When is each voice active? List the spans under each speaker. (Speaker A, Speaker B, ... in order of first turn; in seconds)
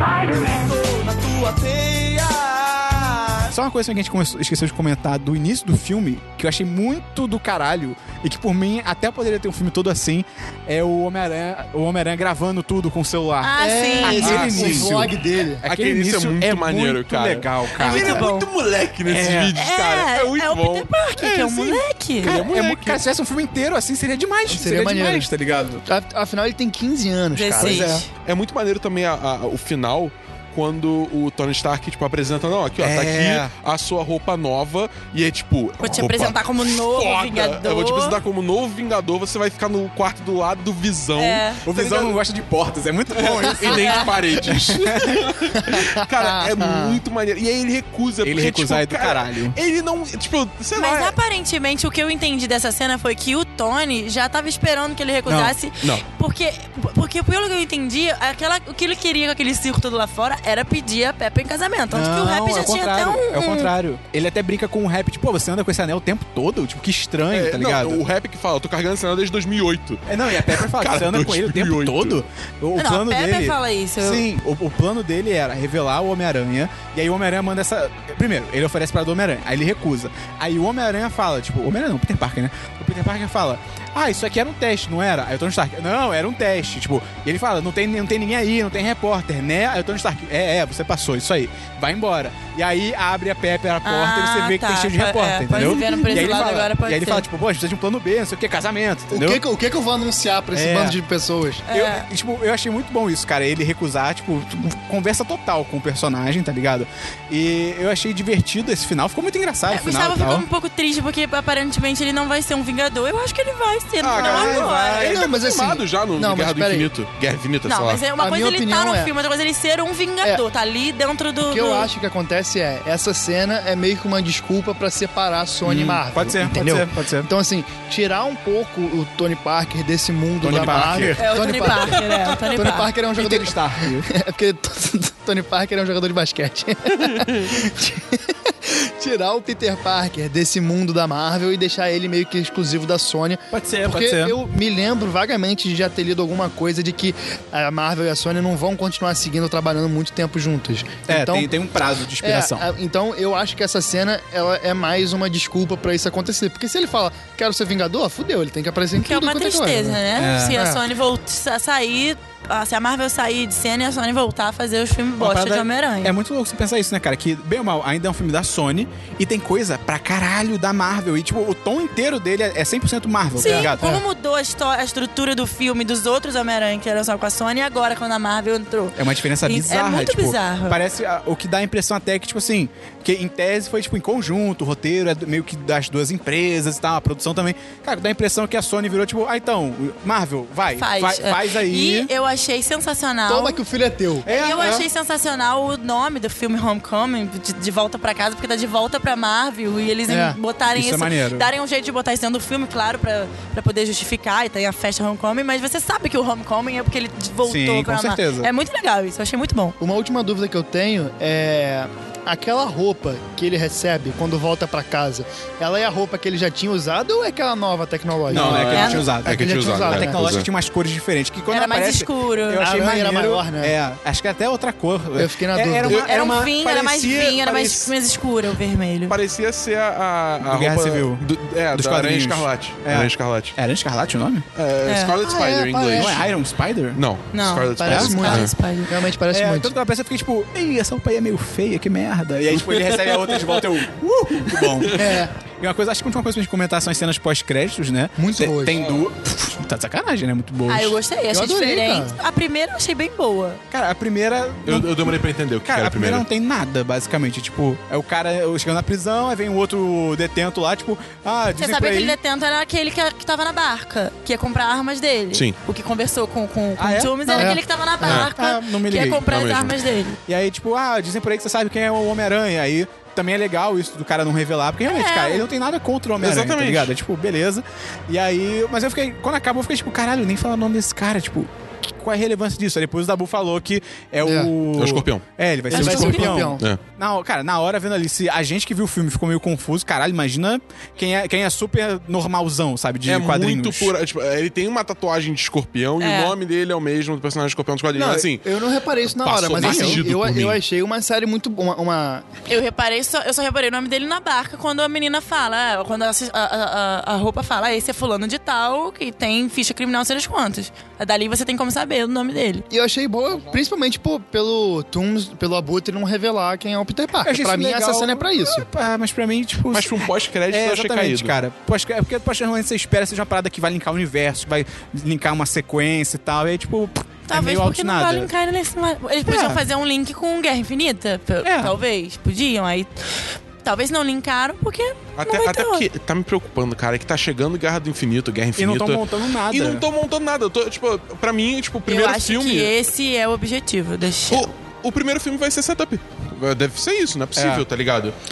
Speaker A: 0.3-3.4
Speaker B: 3.5-18.3, 19.0-19.5, 22.2-25.8, 27.6-28.0, 32.8-33.5, 41.6-45.3, 48.2-49.6, 55.3-55.5, 61.9-68.0, 70.1-99.4, 100.5-101.0, 101.7-110.5, 114.3-114.7, 125.6-127.3, 130.4-131.9, 133.1-134.1, 143.5-144.4, 151.1-152.7, 160.2-160.6, 165.2-173.8, 178.9-192.1, 194.2-194.9, 200.7-201.5, 207.4-208.5, 218.3-227.9, 230.4-231.2, 231.7-234.4, 235.9-237.0, 237.8-238.4, 239.3-251.0, 253.7-262.2, 266.8-269.2, 270.3-293.9, 299.6-300.1, 317.2-328.3, 329.3-329.6, 331.4-331.7, 338.6-339.9, 347.4-347.6
Speaker C: 13.4-14.5, 17.8-18.5, 19.6-22.4, 27.3-28.0, 35.8-38.2, 41.2-41.6, 50.7-63.7, 72.8-74.2, 93.8-97.2, 101.7-102.0, 109.7-115.2, 117.7-121.9, 131.2-132.9, 159.0-166.1, 173.4-180.8, 190.7-193.6, 194.2-209.8, 218.7-219.0, 221.5-222.6, 225.9-229.1, 234.8-235.2, 237.3-238.9, 250.7-253.6, 261.6-270.2, 274.9-275.5, 285.7-286.3, 296.0-296.3, 302.5-312.6, 327.3-335.9, 341.9-344.5
Speaker D: 13.6-15.6, 24.5-25.3, 25.9-28.0, 45.5-47.0, 99.1-101.6, 114.2-116.9, 118.1-119.1, 121.5-151.5, 152.2-160.8, 173.4-174.0, 193.3-194.3, 200.1-200.4, 209.8-220.2, 222.6-223.7, 225.2-226.0, 235.2-236.2, 237.8-239.7, 244.9-245.3, 248.2-248.8, 251.3-252.2, 267.3-268.2, 284.2-284.5, 285.7-286.6, 297.9-302.2, 312.7-318.7
Speaker E: 14.2-14.9, 15.6-23.0, 28.2-42.2, 43.2-51.1, 67.3-72.2, 114.0-118.0, 130.4-131.2, 137.0-137.5, 218.3-220.5, 229.1-233.6, 234.5-236.3, 236.9-238.5, 242.6-243.5, 244.5-245.1, 248.8-249.1, 254.7-256.2, 268.0-268.3, 269.3-269.8, 276.2-276.9, 284.8-285.2, 286.0-286.8, 293.1-298.4, 299.2-300.6, 319.7-321.4, 335.2-342.7, 344.3-348.1